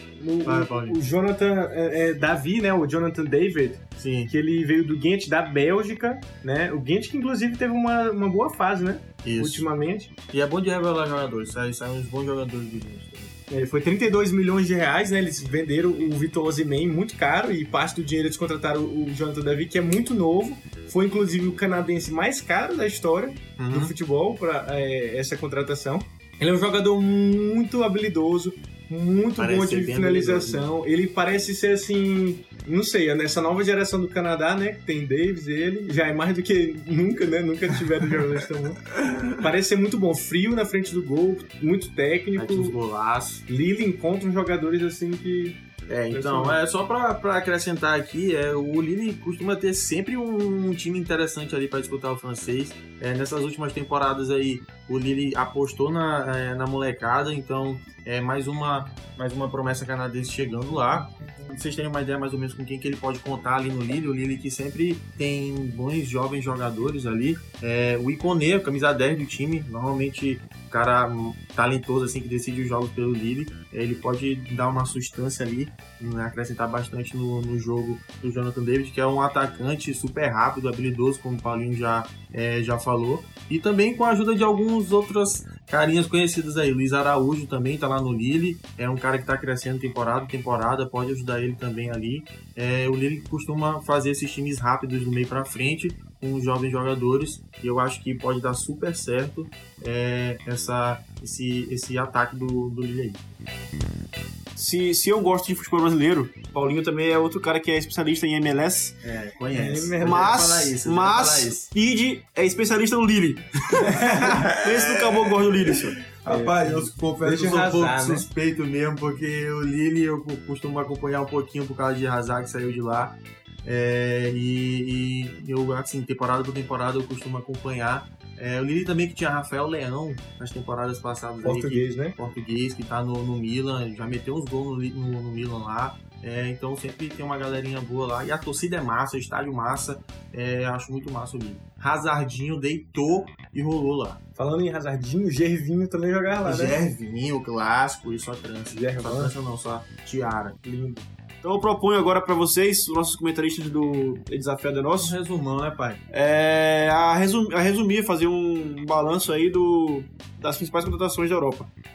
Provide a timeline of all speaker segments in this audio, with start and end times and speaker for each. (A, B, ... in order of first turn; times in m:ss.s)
0:00.2-0:10.1 A
0:00.4-0:01.0 B
0:04.0-0:04.3 B
0:09.2-0:09.6 B
0:10.3-0:13.3 B
0:13.5-0:42.8 A
0:23.6-0:23.9 B
0:29.4-0:30.7 B
0:42.4-0:43.4 B
0:43.5-0:45.6 A
0:45.9-1:43.2 B
0:46.1-0:46.6 A
1:44.6-1:49.0 C
1:49.0-1:51.7 B
1:49.5-1:50.4 A
1:50.0-1:56.0 C
1:54.0-2:24.2 B
1:54.0-1:54.3 A
1:56.2-1:58.3 A
2:11.4-2:12.1 A
2:24.4-2:26.8 A
2:26.4-2:30.6 B
2:28.7-2:29.3 A
2:30.6-2:31.1 A
2:31.4-2:35.2 C
2:35.0-2:36.0 B
2:36.1-2:41.7 C